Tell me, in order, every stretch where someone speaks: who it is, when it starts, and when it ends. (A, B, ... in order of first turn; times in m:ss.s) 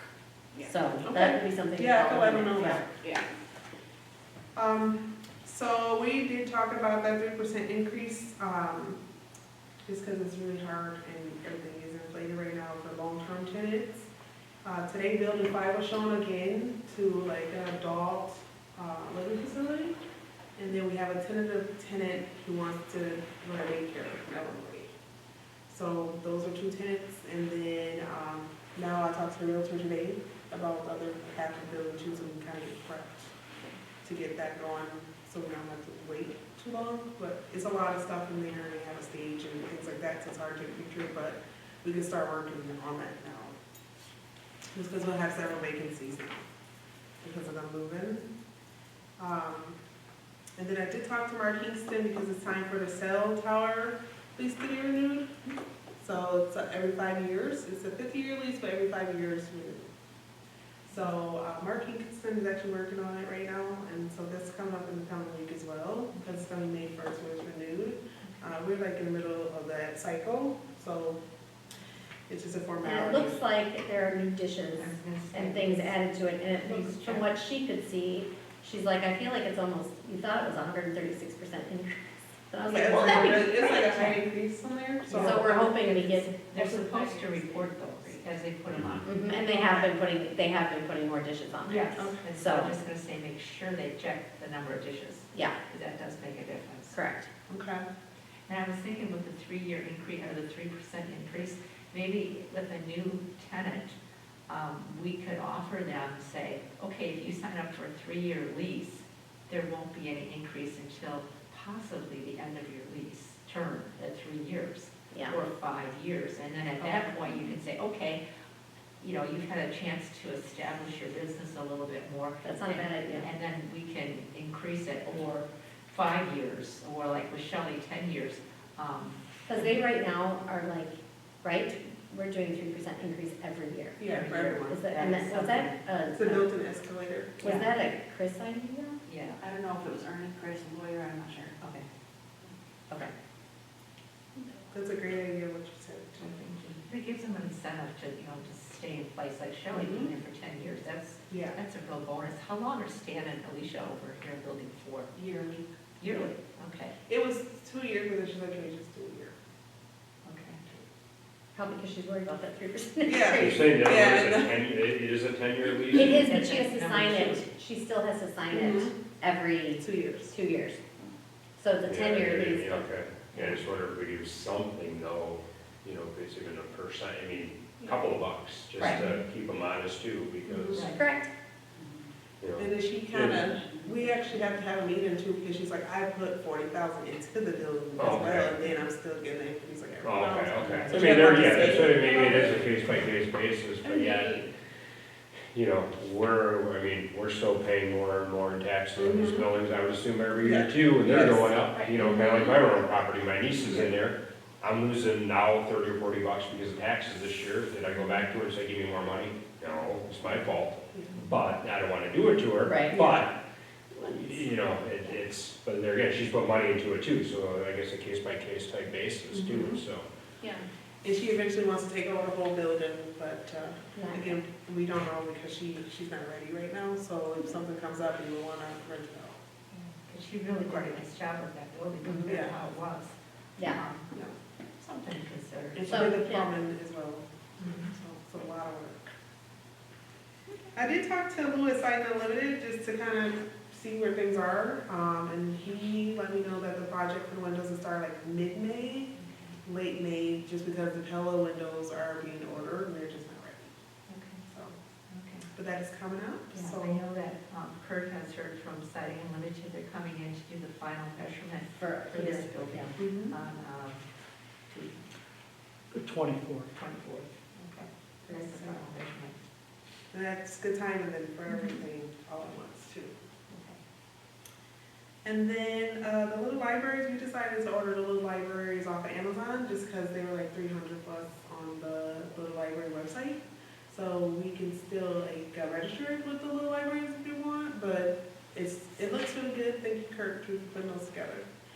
0:00.5-0:01.2 A
0:00.6-0:02.8 B
0:01.1-0:02.8 C
0:03.0-0:03.3 A
0:04.6-0:09.0 C
0:09.9-0:14.1 C
0:14.6-0:20.0 C
0:20.6-0:24.9 C
0:25.7-0:33.3 C
0:34.0-0:43.6 C
0:44.7-0:46.4 C
0:47.2-0:48.3 C
0:49.2-0:49.8 C
0:50.6-0:55.3 C
0:56.0-0:59.9 C
1:00.9-1:11.2 C
1:12.3-1:13.4 C
1:12.8-1:23.8 B
1:14.8-1:15.9 D
1:16.6-1:17.3 D
1:22.7-1:26.0 C
1:23.1-1:24.2 D
1:25.1-1:25.5 D
1:25.1-1:26.3 B
1:26.3-1:29.9 D
1:26.5-1:27.6 A
1:29.0-1:32.7 B
1:31.7-1:37.0 D
1:32.0-1:32.2 C
1:36.9-1:37.3 B
1:37.5-1:37.9 C
1:38.5-1:44.0 D
1:44.5-1:58.2 D
1:56.8-1:57.5 C
1:59.0-2:09.8 D
2:02.4-2:03.3 B
2:09.5-2:14.0 B
2:14.0-2:14.8 C
2:14.0-2:15.8 D
2:14.7-2:16.4 B
2:16.1-2:17.6 C
2:17.4-2:19.0 B
2:17.4-2:17.7 D
2:19.0-2:19.4 D
2:19.4-2:21.5 A
2:24.7-2:26.3 C
2:26.2-2:35.2 D
2:29.7-2:30.1 C
2:31.3-2:31.6 C
2:35.2-2:35.6 C
2:36.0-2:37.0 D
2:37.1-2:39.4 C
2:40.2-2:40.6 D
2:41.5-2:43.7 B
2:43.0-2:44.6 C
2:43.4-2:46.2 E
2:45.9-2:50.8 B
2:46.0-2:47.4 D
2:48.5-2:48.9 C
2:49.8-2:50.3 C
2:51.6-2:52.9 B
2:51.9-3:00.9 E
2:53.3-2:53.6 D
3:00.5-3:00.8 C
3:00.7-3:01.0 D
3:00.8-3:01.3 B
3:02.4-3:03.5 E
3:02.6-3:12.4 C
3:08.0-3:08.6 E
3:10.0-3:14.4 E
3:14.0-3:14.5 A
3:15.5-3:33.4 E
3:19.0-3:19.5 C
3:20.4-3:22.0 C
3:23.6-3:23.9 C
3:32.6-3:33.2 B
3:34.0-3:40.1 E
3:39.3-3:39.8 C
3:41.0-3:49.4 C
3:44.0-3:44.4 B
3:49.7-3:54.2 D
3:50.6-3:51.0 C
3:52.0-3:52.4 B
3:52.3-3:52.6 C
3:54.8-3:56.2 D
3:55.8-3:59.1 C
3:55.9-3:56.5 B
3:57.6-3:57.9 D
4:00.8-4:09.1 C
4:09.2-4:09.6 D
4:09.6-4:13.7 C
4:14.1-4:14.4 D
4:14.5-4:14.8 C
4:15.1-4:15.5 D
4:15.5-4:17.0 C
4:16.5-4:24.1 D
4:21.7-4:22.9 B
4:23.0-4:23.4 C
4:24.7-4:25.0 D
4:26.7-4:29.3 D
4:28.3-4:28.6 B
4:30.1-4:33.1 C
4:33.5-4:33.8 D
4:35.2-4:43.4 C
4:43.9-4:51.5 C